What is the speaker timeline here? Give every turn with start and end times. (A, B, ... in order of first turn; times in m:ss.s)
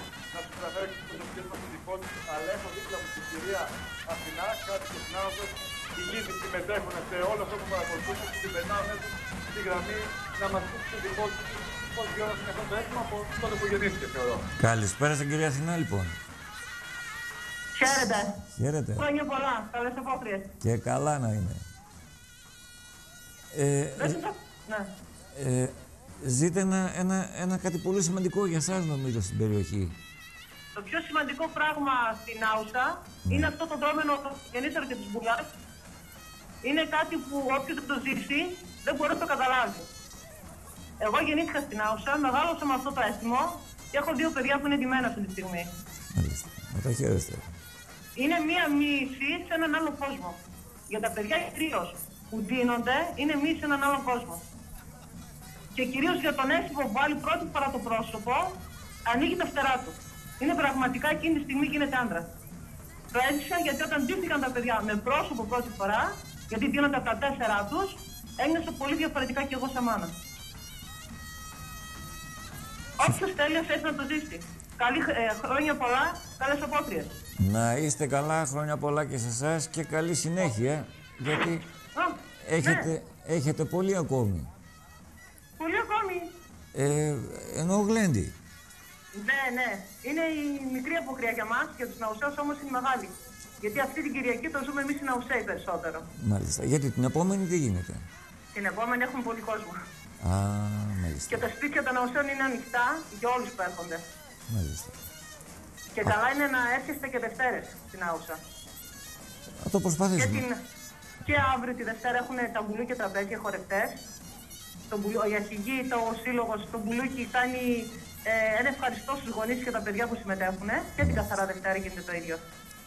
0:00.3-0:14.4 A
0:14.6-0:16.2 B
0:17.7-0:18.4 C
0:18.5-0:19.1 B
0:19.0-0:20.5 C
0:20.6-0:21.6 B
0:23.5-0:24.2 B
0:24.0-0:24.9 C
0:25.3-0:30.0 B
0:30.7-0:35.5 C
0:33.2-0:33.5 B
0:36.6-0:39.9 C
0:41.0-0:45.7 C
0:46.1-0:47.5 B
0:48.2-0:50.4 C
0:50.9-0:54.4 C
0:55.7-0:58.5 C
0:59.0-1:02.3 C
1:03.1-1:10.1 C
1:13.0-1:17.1 C
1:17.4-1:21.6 B
1:21.9-1:22.9 C
1:22.4-1:24.5 B
1:25.6-1:26.3 C
1:26.7-1:28.3 B
1:29.1-1:36.0 C
1:36.1-1:38.0 B
1:38.5-1:39.8 C
1:40.2-1:41.4 B
1:41.3-1:44.0 C
1:44.5-1:44.9 B
1:45.9-1:48.4 C
1:49.6-1:50.4 B
1:50.2-1:50.6 C
1:51.2-1:54.0 C
1:54.9-2:02.4 C